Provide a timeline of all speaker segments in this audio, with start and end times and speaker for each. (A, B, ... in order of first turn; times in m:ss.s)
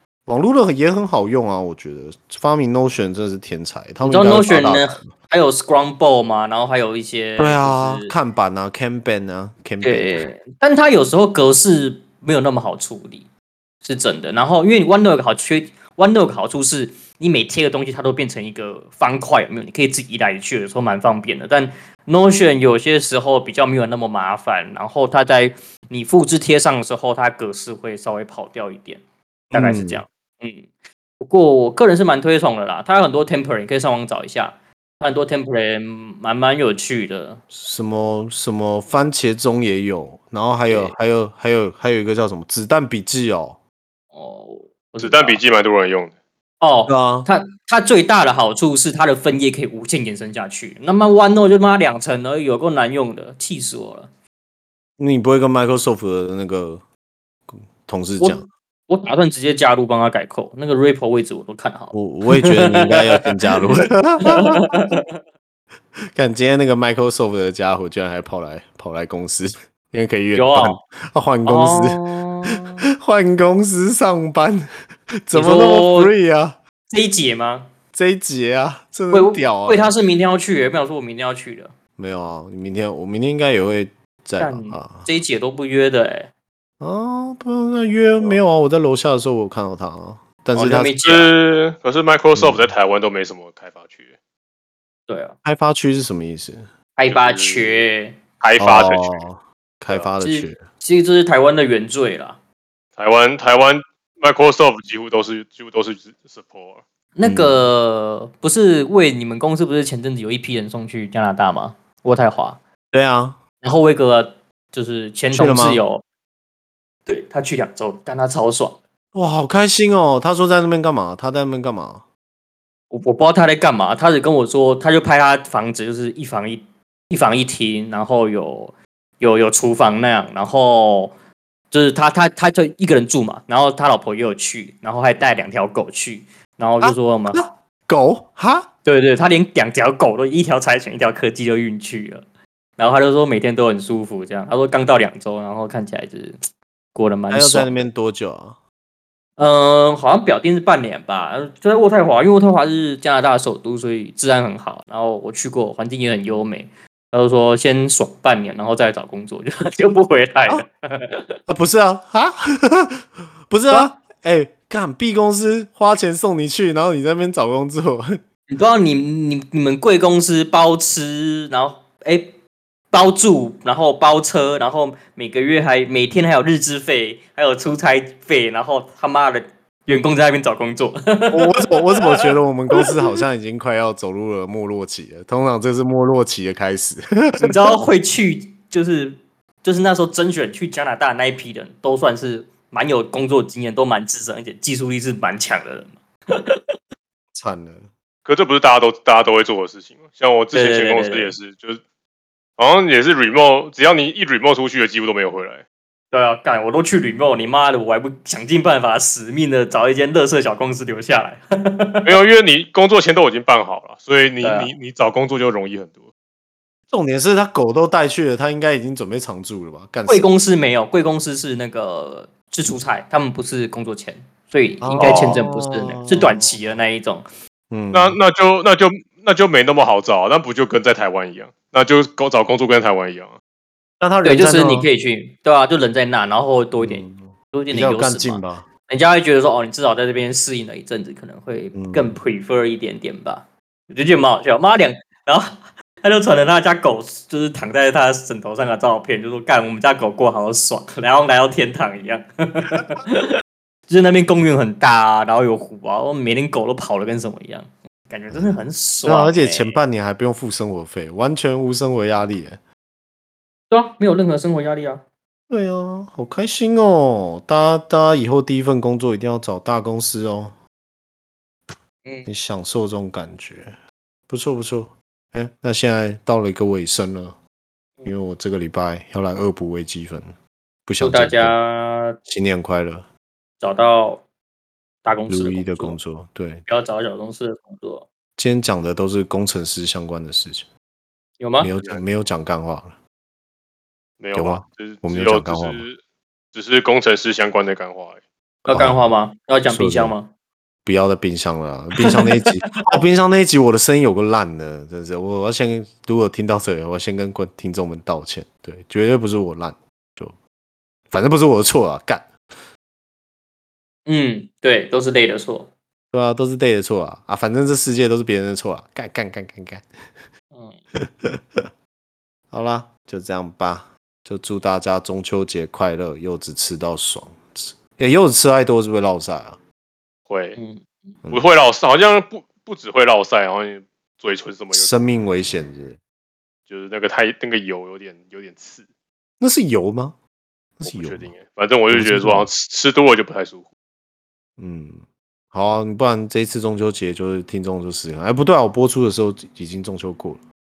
0:00.2-0:05.1 A
0:04.0-0:08.2 B
0:07.4-0:10.2 A
0:09.8-0:13.3 B
0:13.8-0:37.4 B
0:29.5-0:30.0 A
0:37.5-0:43.6 A
0:40.7-0:41.0 B
0:44.1-0:45.4 B
0:45.0-0:46.1 C
0:46.6-0:54.1 B
0:46.9-0:47.3 A
0:55.0-0:56.8 A
0:57.5-0:58.5 A
0:58.2-1:03.2 B
1:01.9-1:04.6 A
1:04.2-1:05.2 B
1:06.1-1:12.0 A
1:10.3-1:10.8 B
1:11.4-1:12.8 B
1:13.0-1:14.6 A
1:15.2-1:16.6 A
1:15.3-1:16.1 B
1:16.9-1:17.7 B
1:17.9-1:19.9 A
1:19.1-1:21.7 B
1:22.0-1:25.1 A
1:24.4-1:26.3 B
1:26.8-1:31.0 A
1:30.5-1:31.3 B
1:31.0-1:34.1 C
1:32.3-1:32.7 A
1:35.1-1:35.4 B
1:35.4-1:36.7 A
1:37.0-1:38.2 B
1:37.1-1:37.8 C
1:38.4-1:39.2 C
1:38.6-1:40.6 A
1:40.2-1:42.4 B
1:43.0-1:46.8 C
1:47.1-1:52.6 B
1:47.2-1:47.7 A
1:52.9-1:53.4 A
1:53.6-1:56.0 B
1:55.3-1:55.8 A
1:57.0-1:58.8 B
1:59.1-2:02.0 A
2:02.9-2:11.1 B
2:11.7-2:17.4 B
2:16.8-2:18.7 A
2:18.8-2:22.2 B
2:22.8-2:26.4 B
2:26.9-2:27.9 B
2:27.3-2:28.6 A
2:29.4-2:41.4 B
2:41.5-2:48.1 A
2:48.5-2:52.4 B
2:52.9-3:02.2 B
3:01.3-3:07.8 A
3:07.4-3:16.7 B
3:17.3-3:17.9 A
3:18.2-3:21.8 C
3:20.5-3:21.3 B
3:22.6-3:25.6 C
3:26.1-3:32.1 B
3:32.0-3:36.1 C
3:34.4-3:34.7 B
3:36.9-3:40.3 A
3:40.1-3:47.3 B
3:44.8-3:46.6 A
3:45.0-3:45.4 C
3:47.7-3:48.2 A
3:47.9-3:53.4 C
3:54.0-3:54.9 A
3:54.2-4:13.3 B
3:56.8-3:58.7 A
4:01.7-4:02.2 A
4:13.9-4:19.8 B
4:18.3-4:22.6 A
4:23.7-4:25.0 B
4:25.5-4:30.6 A
4:32.2-4:33.8 A
4:34.3-4:37.4 A
4:38.0-4:40.3 A
4:40.9-4:41.6 A
4:41.0-4:42.2 B
4:42.2-4:43.1 A
4:43.6-4:44.2 B
4:45.0-4:46.0 B
4:45.3-4:46.6 A
4:46.7-4:48.0 B
4:48.4-4:50.7 A
4:51.4-4:51.7 B
4:51.6-4:53.0 A
4:54.2-4:56.0 C
4:54.3-4:55.8 A
4:56.5-4:58.2 C
4:58.6-4:59.0 A
4:58.7-5:00.3 B
4:59.7-5:00.2 A
5:00.8-5:10.4 A
5:02.0-5:02.8 B
5:11.1-5:12.3 A
5:14.0-5:15.7 B
5:16.1-5:19.8 A
5:20.5-5:20.8 B
5:21.2-5:21.7 A
5:22.5-5:29.6 A
5:30.3-5:30.6 C
5:30.6-5:31.1 B
5:31.3-5:35.0 C
5:34.7-5:36.0 A
5:36.7-5:38.8 C
5:39.4-5:40.2 A
5:40.8-5:41.3 A
5:40.8-5:43.6 C
5:41.9-5:42.5 A
5:44.6-5:50.4 A